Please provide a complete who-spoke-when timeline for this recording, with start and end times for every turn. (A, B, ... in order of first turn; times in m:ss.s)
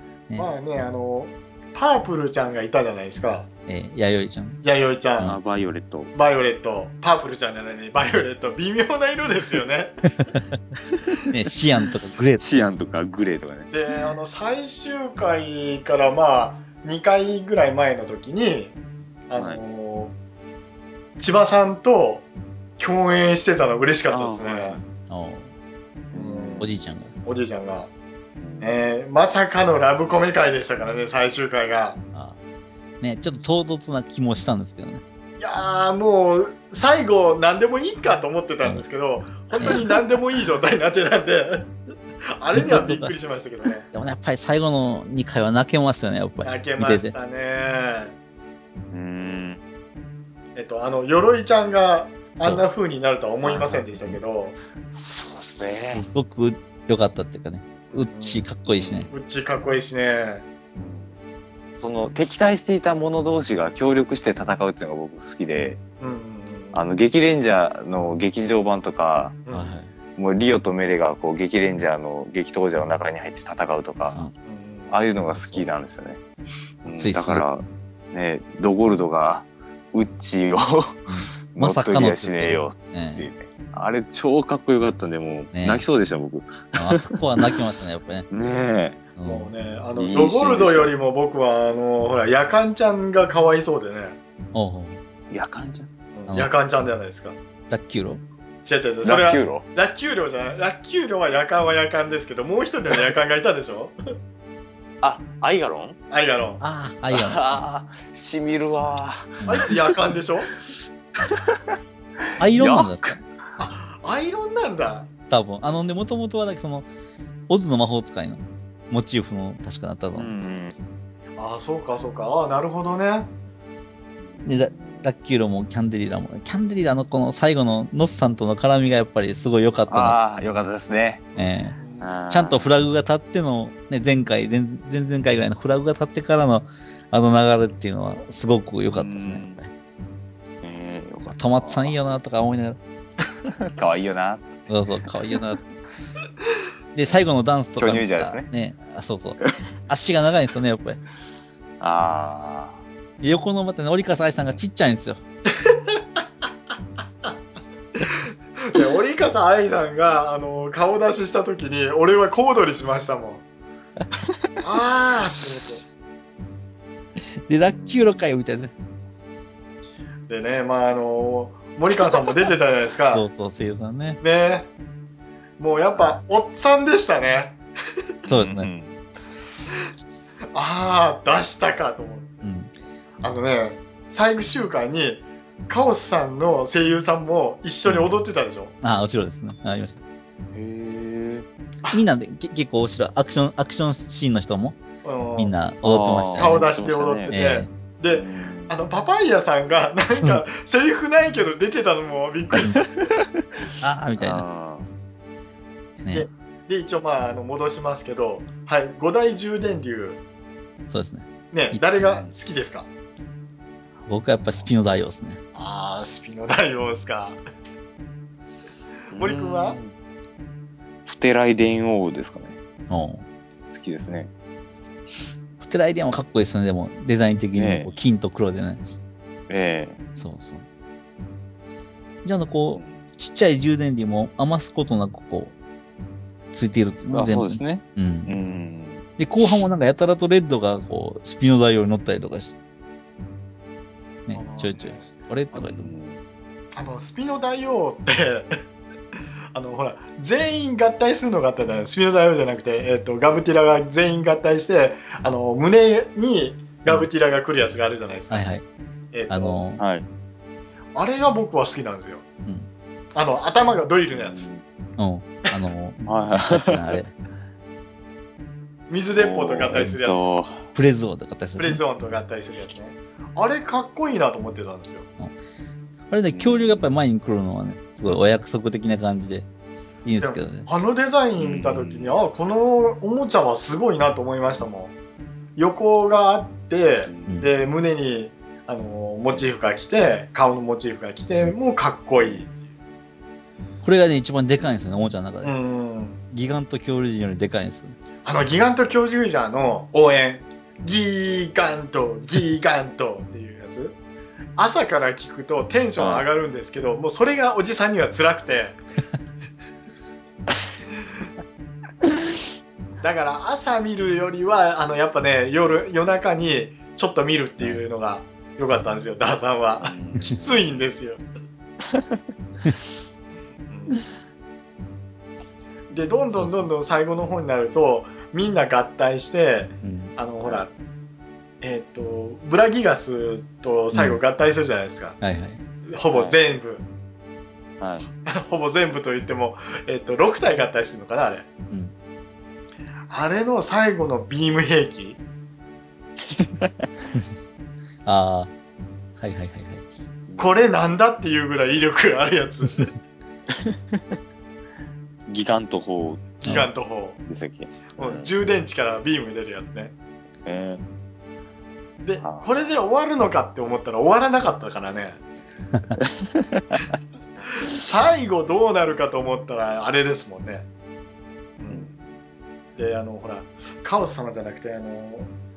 0:00.4-0:03.5 A
0:03.7-0:04.6 B
0:04.6-0:05.4 A
0:05.2-0:06.1 C
0:06.1-0:10.1 A
0:10.2-0:10.6 B
0:11.3-0:12.5 B
0:12.4-0:13.7 C
0:13.7-0:18.8 A
0:19.3-0:20.1 A
0:19.4-0:19.6 C
0:21.2-0:22.2 A
0:22.8-0:24.8 A
0:24.1-0:24.8 C
0:25.1-0:25.5 B
0:26.1-0:26.8 C
0:26.1-0:26.7 A
0:26.6-0:27.1 B
0:27.2-0:27.9 A
0:28.4-0:28.8 C
0:28.6-0:32.0 A
0:33.0-0:35.0 B
0:35.4-0:41.7 A
0:42.4-0:43.9 A
0:42.5-0:43.1 B
0:43.9-0:47.1 B
0:46.4-0:48.1 A
0:48.9-0:49.6 C
0:50.6-0:54.6 A
0:52.4-0:52.7 B
0:53.4-0:53.8 C
0:55.0-0:56.0 C
0:55.7-0:59.1 B
0:58.1-0:58.4 A
0:58.7-0:59.1 C
0:59.1-1:00.4 A
1:00.8-1:01.2 C
1:01.8-1:05.8 C
1:06.0-1:06.8 A
1:06.7-1:09.4 C
1:09.5-1:09.9 B
1:10.2-1:14.2 C
1:14.5-1:14.9 A
1:14.9-1:16.2 C
1:16.8-1:27.5 C
1:16.9-1:17.4 B
1:21.1-1:23.3 B
1:25.5-1:25.8 B
1:26.8-1:28.3 B
1:28.3-1:29.0 C
1:29.2-1:29.5 B
1:29.2-1:34.2 A
1:30.0-1:30.9 C
1:34.5-1:35.0 B
1:35.3-1:35.9 C
1:36.2-1:37.4 A
1:37.7-1:38.2 B
1:38.6-1:44.0 A
1:39.0-1:39.6 C
1:45.0-1:46.0 C
1:46.1-1:46.6 A
1:46.6-1:47.5 B
1:47.1-1:49.9 C
1:49.4-1:49.7 B
1:49.4-1:50.5 A
1:50.7-1:51.7 C
1:52.4-1:53.2 B
1:52.5-1:53.2 C
1:53.6-1:55.1 A
1:55.3-1:56.9 B
1:57.5-2:00.3 B
2:00.2-2:00.8 C
2:01.4-2:03.3 A
2:04.2-2:05.1 C
2:04.4-2:10.2 B
2:09.9-2:11.3 C
2:11.4-2:11.8 B
2:11.8-2:12.1 A
2:12.0-2:12.7 C
2:12.3-2:19.7 B
2:19.0-2:19.6 C
2:20.6-2:22.0 C
2:21.3-2:22.8 B
2:23.6-2:24.7 C
2:24.7-2:25.6 B
2:27.0-2:31.0 B
2:27.8-2:28.5 C
2:31.8-2:32.8 C
2:33.2-2:35.2 B
2:38.0-2:43.4 A
2:44.6-2:45.8 A
2:47.5-2:48.7 B
2:47.7-2:48.3 C
2:50.3-2:53.3 A
2:53.1-2:54.2 B
2:54.2-2:54.7 A
2:55.6-2:57.6 A
2:58.3-2:58.7 B
2:58.3-2:59.0 C
3:00.5-3:02.4 A
3:02.4-3:02.7 B
3:03.2-3:08.8 A
3:08.8-3:10.0 B
3:10.5-3:11.5 C
3:11.9-3:14.8 B
3:15.0-3:15.6 A
3:15.4-3:16.7 B
3:15.8-3:17.3 C
3:16.4-3:22.9 A
3:17.3-3:17.7 B
3:18.1-3:18.7 C
3:23.8-3:24.4 B
3:24.2-3:24.9 C
3:26.1-3:30.2 A
3:30.9-3:32.2 B
3:31.5-3:32.9 A
3:34.1-3:35.4 B
3:35.6-3:37.4 A
3:39.1-3:40.0 C
3:39.2-3:39.8 A
3:41.1-3:42.6 C
3:42.9-3:43.2 B
3:43.7-3:44.3 C
3:45.6-3:49.0 B
3:47.6-3:47.9 C
3:49.5-3:50.0 C
3:50.2-3:50.6 B
3:52.2-3:55.5 B
3:52.8-3:53.0 C
3:56.5-3:58.4 B
3:57.1-3:59.1 C
3:59.2-4:02.5 B
4:04.3-4:05.9 B
4:04.3-4:05.1 A
4:05.7-4:06.2 C
4:06.7-4:08.5 A
4:09.5-4:18.5 A
4:18.3-4:18.6 B
4:19.1-4:19.6 A
4:19.3-4:19.8 B
4:19.8-4:20.1 C
4:21.0-4:22.2 A
4:23.2-4:24.5 A
4:24.1-4:24.6 C
4:25.0-4:27.1 B
4:26.1-4:27.0 C
4:28.9-4:30.2 A
4:29.2-4:30.7 C
4:30.7-4:31.8 B
4:31.6-4:35.0 A
4:36.1-4:39.5 B
4:36.3-4:36.9 C
4:40.0-4:40.7 B
4:40.2-4:44.9 A
4:41.4-4:42.2 C
4:45.6-4:52.5 A
4:53.8-4:55.6 B
4:55.4-4:56.2 A
4:56.3-4:58.0 B
4:58.2-5:04.0 A
5:04.6-5:08.8 A
5:06.0-5:06.3 C
5:13.0-5:21.2 A
5:19.8-5:20.6 C
5:23.7-5:24.0 A
5:25.9-5:30.7 A
5:26.3-5:26.7 B
5:29.8-5:30.1 B
5:31.6-5:35.2 A
5:33.9-5:34.2 B
5:35.2-5:35.6 B
5:35.8-5:36.8 A
5:36.1-5:36.4 C
5:37.8-5:38.1 C
5:38.2-5:41.5 A
5:43.1-5:45.2 A
5:46.4-5:46.9 C
5:48.0-5:48.5 B
5:49.2-5:49.8 B
5:50.3-5:50.6 C
5:50.4-5:52.9 A
5:55.3-5:56.3 C
5:56.4-5:57.2 A
5:57.3-5:58.3 C
5:58.0-5:59.9 A
6:00.4-6:00.8 C
6:02.0-6:05.2 A
6:02.2-6:02.6 C
6:07.6-6:10.6 A
6:11.6-6:11.9 A
6:11.7-6:12.0 C
6:12.8-6:15.3 A